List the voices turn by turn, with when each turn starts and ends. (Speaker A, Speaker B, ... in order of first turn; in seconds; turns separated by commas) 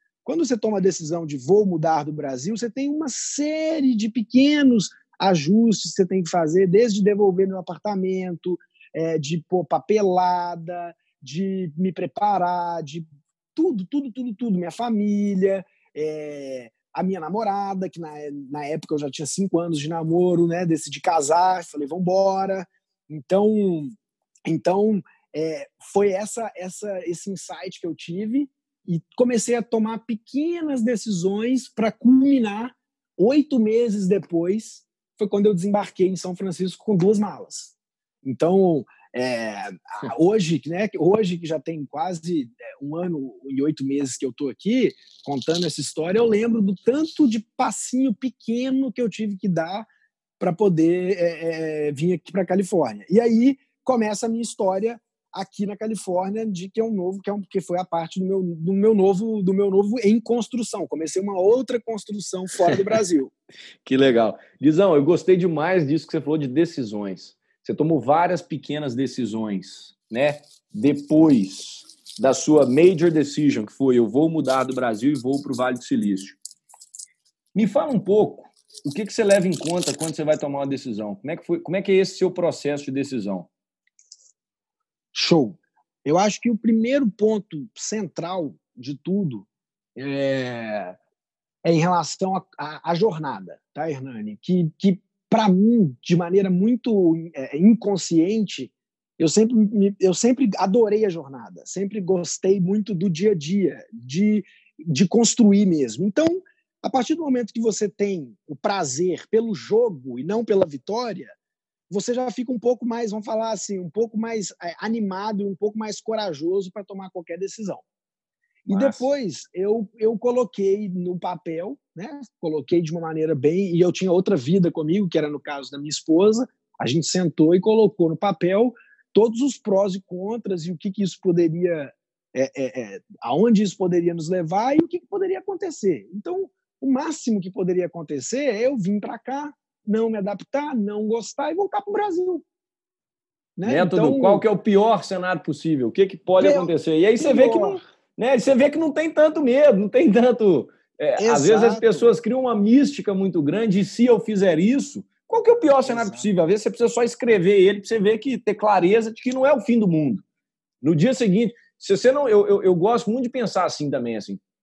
Speaker A: 0.2-24.0, Speaker A: 24.5-49.9, Speaker A: 50.4-63.3, Speaker B: 63.9-76.4, Speaker B: 77.5-83.5, Speaker A: 85.1-91.0, Speaker A: 91.6-111.3, Speaker A: 111.9-117.8, Speaker A: 118.7-142.4, Speaker B: 118.7-119.1, Speaker A: 143.6-144.4, Speaker B: 143.7-160.2, Speaker A: 146.4-147.8, Speaker A: 151.2-152.2, Speaker A: 155.8-156.3, Speaker B: 160.8-164.4